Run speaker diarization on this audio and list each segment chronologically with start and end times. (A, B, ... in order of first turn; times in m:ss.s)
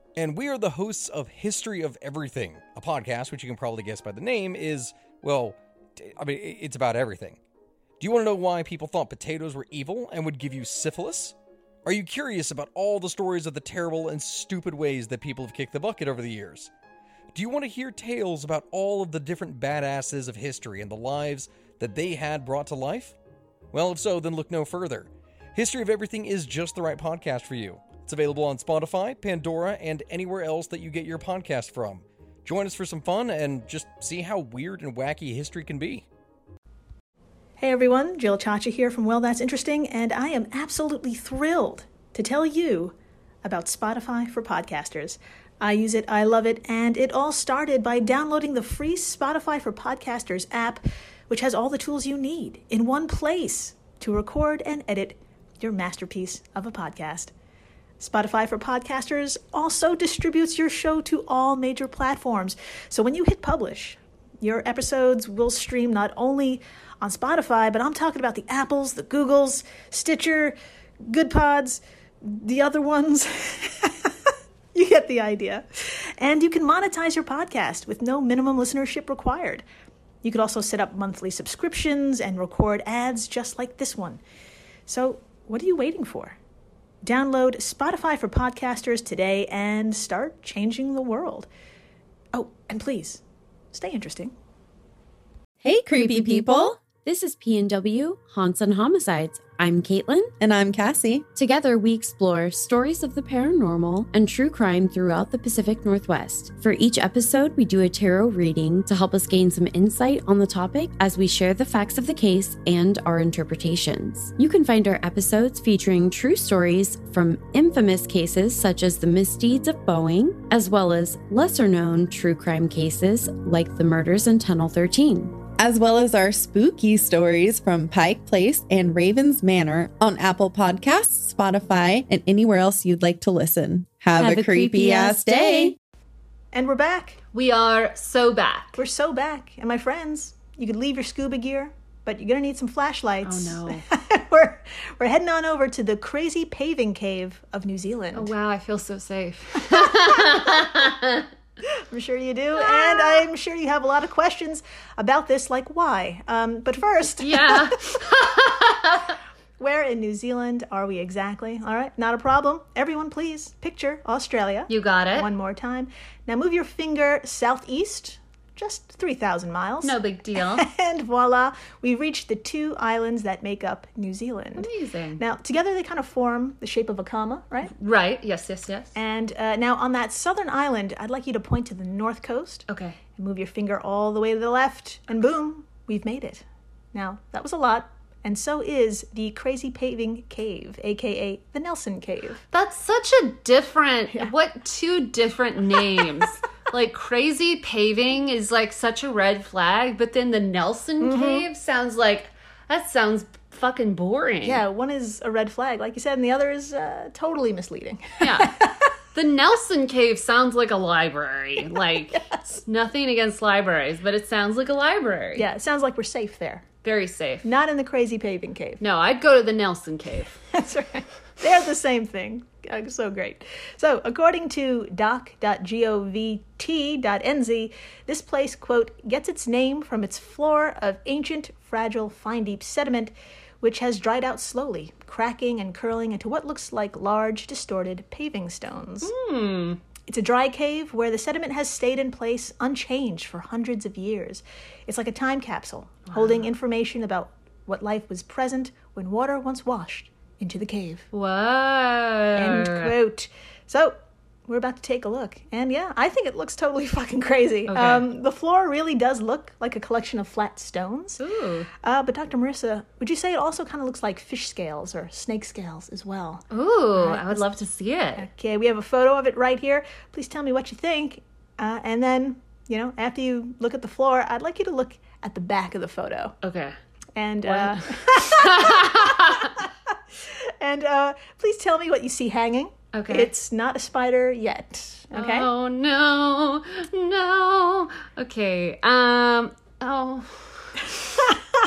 0:00.2-0:07.4 A
0:08.0-0:16.7 A
0:17.3-0:23.2 A
0:23.7-0:36.1 A
0:37.6-0:57.3 B
0:58.0-1:19.6 B
1:20.2-1:24.2 B
1:24.9-1:26.4 B
1:27.0-1:31.5 B
1:32.3-1:33.2 B
1:33.7-1:34.3 B
1:35.6-1:36.8 C
1:35.9-1:40.3 D
1:40.4-1:41.3 C
1:41.4-2:05.4 D
2:05.6-2:15.8 C
2:14.2-2:15.8 D
2:16.5-2:17.2 B
2:17.3-2:18.8 E
2:18.8-2:28.3 B
2:23.2-2:23.8 E
2:28.1-2:31.3 E
2:29.7-2:30.7 B
2:31.6-2:37.8 B
2:32.6-2:33.2 E
2:37.2-2:39.2 E
2:39.6-2:57.7 B
2:44.7-2:45.3 E
2:49.8-2:50.7 E
2:54.6-2:55.2 E
2:57.7-2:59.0 E
2:59.0-3:02.6 B
3:02.7-3:03.0 E
3:03.2-3:12.4 B
3:12.5-3:24.6 E
3:15.8-3:16.0 B
3:21.0-3:21.5 B
3:24.4-3:28.9 B
3:28.2-3:28.6 E
3:29.1-3:35.5 E
3:32.1-3:32.4 B
3:35.4-3:36.6 B
3:36.8-3:37.5 E
3:37.4-3:38.8 B
3:38.8-3:40.4 E
3:40.5-3:59.1 B
3:59.0-3:59.8 E
4:00.1-4:11.0 B
4:06.1-4:06.4 E
4:11.1-4:13.0 E
4:12.4-4:21.2 B
4:17.7-4:18.0 E
4:21.2-4:21.7 E
4:21.8-4:27.5 B
4:26.5-4:28.3 E
4:28.2-4:36.4 B
4:36.4-4:36.8 E
4:37.2-4:45.5 B
4:37.4-4:39.6 E
4:42.9-4:43.3 E
4:45.1-4:51.3 E